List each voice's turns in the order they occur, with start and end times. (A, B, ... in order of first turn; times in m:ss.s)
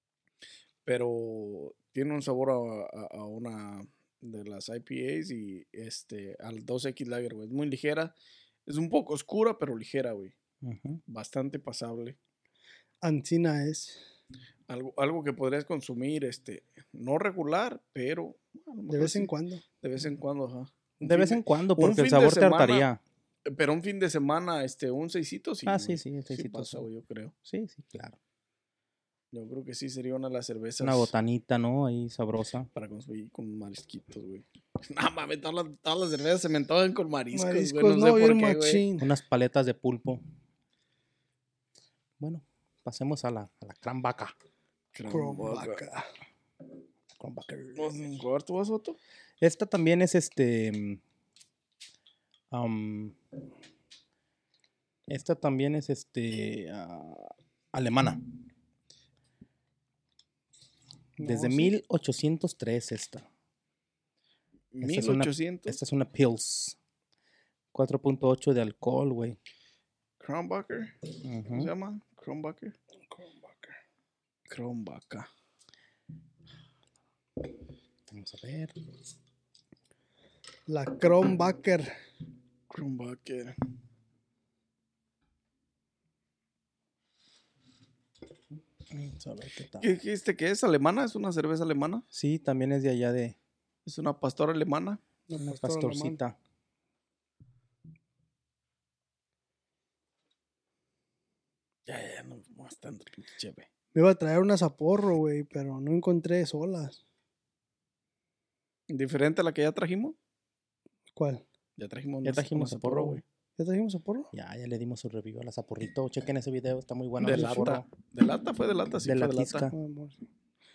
0:00.9-0:08.1 A
0:08.7-0:10.4 A
0:10.6-0:11.0 B
0:11.1-0:12.2 A
0:13.0-0:14.0 C
0:14.7-0:22.9 A
0:18.9-0:19.6 C
0:21.0-0:23.0 B
0:23.5-0:27.3 A
0:25.6-0:26.9 B
0:27.4-0:28.2 B
0:29.3-0:31.1 A
0:30.8-0:32.7 B
0:32.7-0:38.8 A
0:37.3-0:39.1 C
0:39.0-0:40.2 B
0:42.2-0:44.3 B
0:44.9-0:45.8 A
0:45.1-0:46.0 C
0:47.2-0:47.8 B
0:47.8-0:49.0 A
0:49.4-0:51.0 B
0:52.5-0:53.2 B
0:55.1-0:58.2 B
1:01.2-1:01.7 C
1:01.2-1:03.2 B
1:04.7-1:05.8 A
1:04.8-1:06.8 B
1:07.7-1:09.4 B
1:10.2-1:10.9 A
1:11.2-1:11.7 B
1:11.5-1:12.8 A
1:13.1-1:13.8 C
1:14.5-1:15.3 A
1:18.1-1:18.8 B
1:20.7-1:21.9 C
1:22.7-1:23.6 A
1:28.9-1:29.9 B
1:29.8-1:32.0 A
1:32.1-1:33.4 B
1:33.9-1:35.0 A
1:35.3-1:36.2 C
1:35.4-1:36.4 B
1:41.9-1:43.7 A
1:43.9-1:47.0 C
1:48.9-1:50.2 A
1:51.2-1:51.4 C
1:51.8-1:53.2 A
1:52.2-1:53.2 B
1:53.6-1:54.3 C
1:54.3-1:57.8 B
1:57.2-1:59.7 A
1:57.3-1:57.7 C
1:59.0-1:59.7 B
1:59.7-2:00.2 C